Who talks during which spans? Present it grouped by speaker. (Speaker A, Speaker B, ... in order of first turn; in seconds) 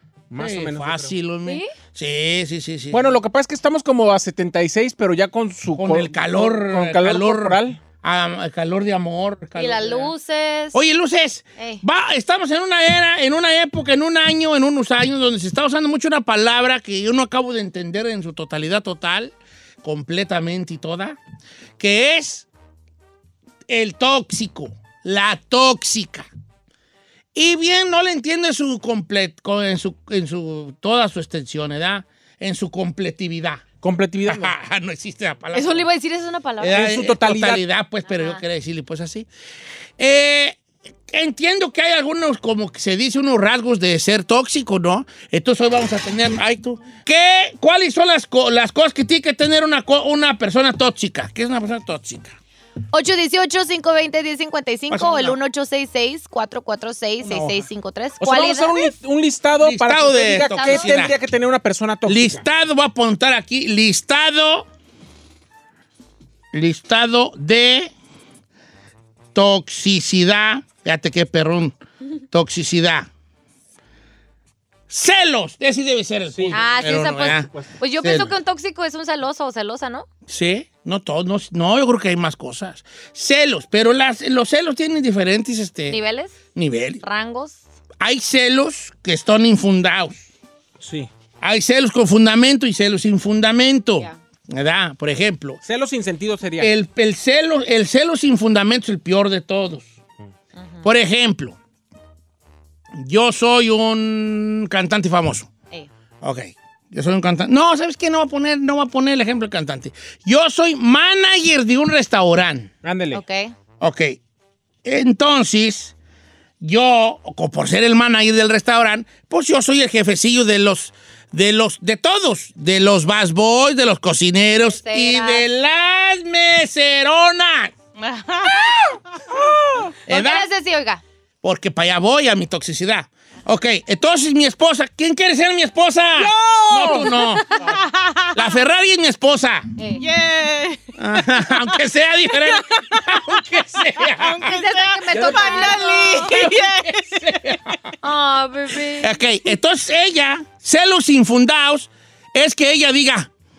Speaker A: 0.3-1.1, 2.9-7.8, 33.8-34.5, 36.7-37.6, 58.2-62.4, 90.8-91.1, 95.7-96.7, 112.8-113.2
Speaker B: 0.4-3.1, 5.8-10.1, 10.7-21.2, 21.8-22.5, 23.7-26.3, 27.4-33.6, 34.3-35.9, 36.6-39.3, 40.0-40.6, 41.1-52.4, 54.9-55.4, 57.2-57.6, 59.6-61.1, 62.1-64.7, 66.5-67.9, 69.3-71.8, 72.3-73.1, 74.9-77.5, 78.0-78.3, 80.3-86.0, 86.5-87.0, 88.0-90.3, 91.4-95.6, 96.6-99.9, 100.8-101.6, 103.0-105.5, 106.2-112.7, 113.8-114.2, 114.8-115.9, 116.6-127.7, 130.1-130.5, 131.4-137.8, 138.3-139.7, 141.0-144.5, 145.2-147.8, 149.0-153.3
Speaker C: 1.4-1.7, 9.6-10.8, 35.5-36.9, 38.1-38.4, 52.9-58.9, 60.3-60.9, 76.5-80.1, 85.9-86.4, 87.0-87.6, 100.6-100.9, 113.1-113.5, 124.7-125.5, 130.1-131.0, 139.8-140.0, 144.3-146.4, 148.0-149.2
Speaker D: 128.0-128.9, 136.2-138.3, 140.0-140.8, 142.6-143.0, 144.2-147.4